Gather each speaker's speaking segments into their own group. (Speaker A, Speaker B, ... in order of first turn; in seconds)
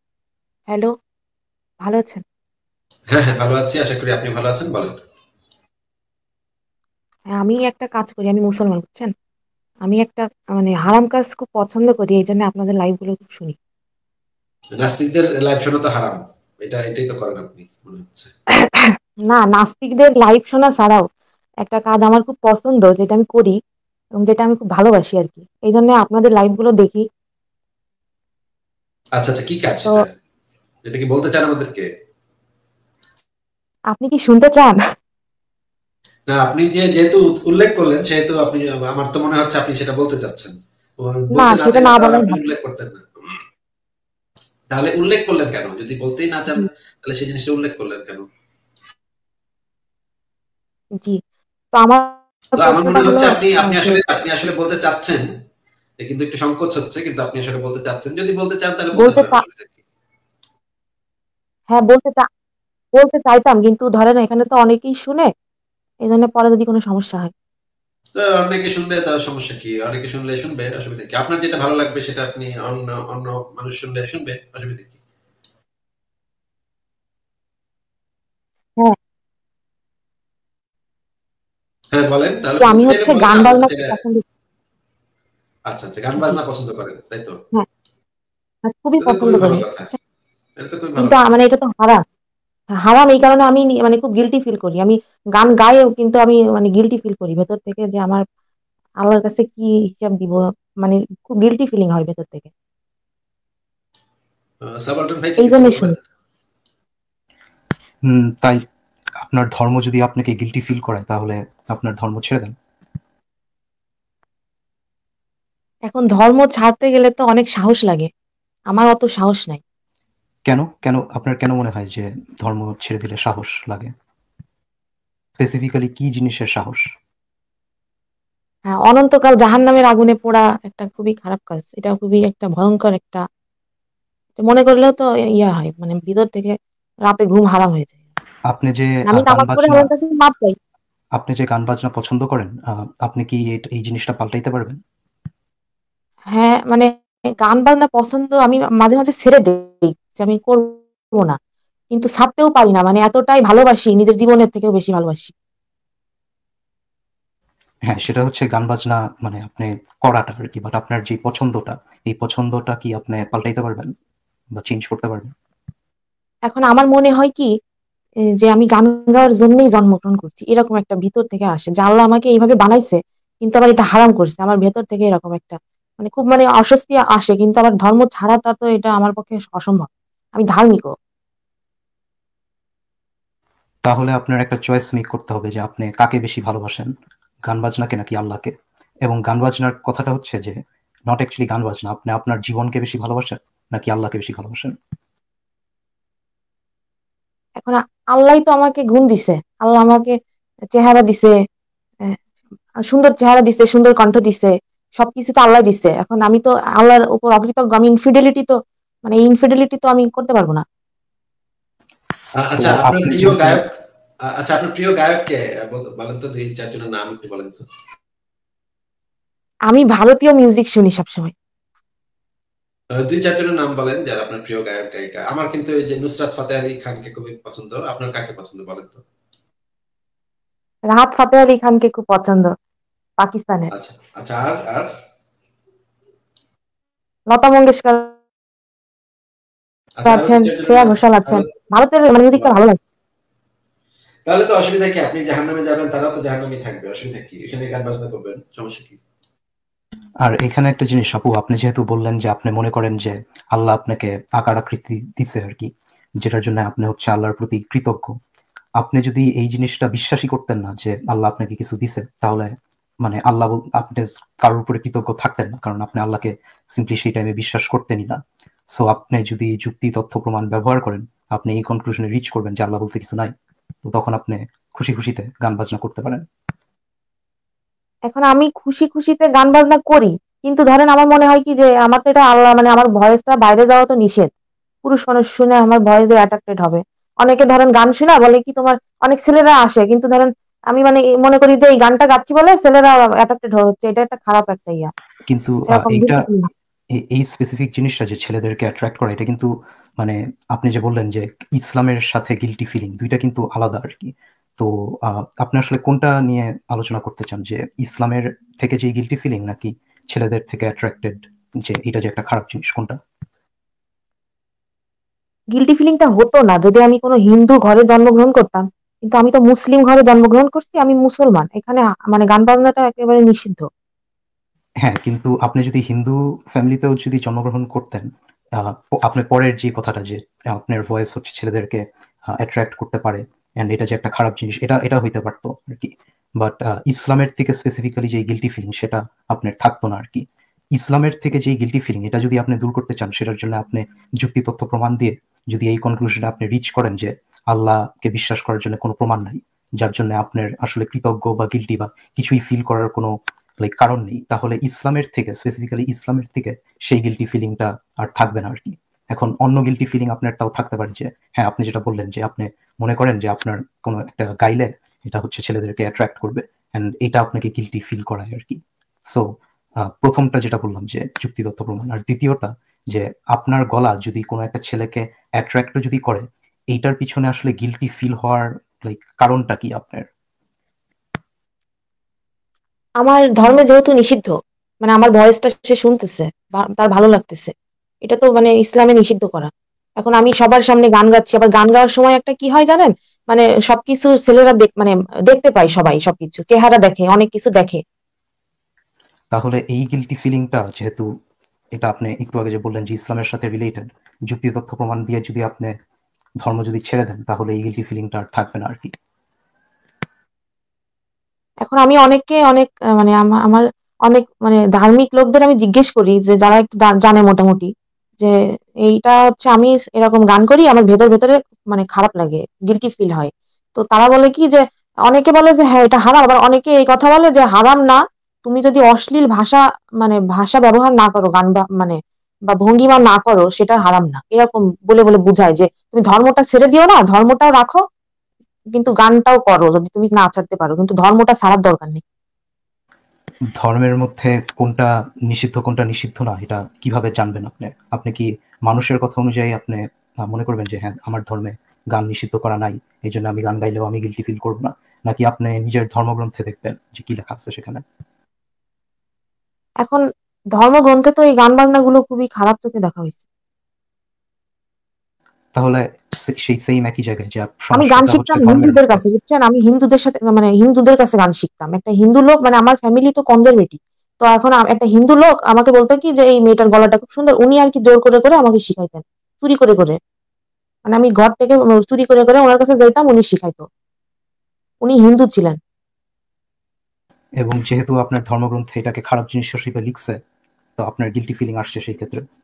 Speaker A: 1.8-2.2, 7.3-9.1, 9.8-13.6, 18.8-21.0, 21.6-23.5, 24.1-27.0, 33.9-34.8, 41.3-42.4, 51.7-54.0, 58.9-59.4, 61.7-62.2, 63.0-65.3, 66.0-67.3, 82.6-84.2, 88.7-90.0, 91.0-92.0, 92.8-98.2, 99.0-102.5, 105.4-105.9, 115.9-118.1, 118.7-119.6, 128.7-133.2, 134.4-136.5, 137.1-138.0, 139.1-140.5, 146.3-146.9, 147.4-151.3, 151.9-155.3, 166.5-167.5, 168.4-180.9, 197.6-200.1, 200.7-201.3, 202.9-208.5, 209.0-210.6, 219.7-221.3, 230.9-232.5, 233.2-233.7, 237.3-238.1, 240.0-242.8, 278.1-284.3, 284.8-294.9, 295.7-296.5, 315.5-323.6, 383.0-387.5, 388.0-397.8, 411.6-417.7, 418.9-432.0, 432.5-437.8, 438.7-442.0, 460.6-463.2, 467.7-480.0, 480.9-483.6, 484.8-485.6
Speaker B: 3.1-5.0, 14.8-18.3, 29.2-30.1, 30.9-31.9, 36.3-43.4, 44.7-48.2, 52.6-55.2, 56.0-59.8, 68.1-75.0, 81.9-83.9, 85.7-87.4, 89.0-89.9, 90.6-91.2, 104.6-105.9, 212.4-213.7, 214.3-217.6, 223.0-229.0, 233.7-234.9, 240.0-241.5, 244.2-249.0
Speaker C: 108.1-108.6, 109.2-112.5, 120.5-123.9, 125.4-126.8, 138.5-139.9, 141.2-144.8, 157.9-163.9, 164.6-165.3, 183.8-186.9, 187.5-188.5, 189.0-190.5, 191.1-194.7, 212.5-213.6, 250.2-255.7, 256.2-258.1, 258.8-262.5, 263.0-268.2, 268.7-273.3, 273.8-276.2, 295.3-296.2, 296.9-312.9, 324.8-328.1, 328.6-331.8, 332.4-340.2, 340.7-369.2, 370.0-380.0, 399.3-401.1, 401.7-405.7, 406.4-408.9, 443.6-457.8, 465.6-469.0, 487.4-490.2, 490.8-492.2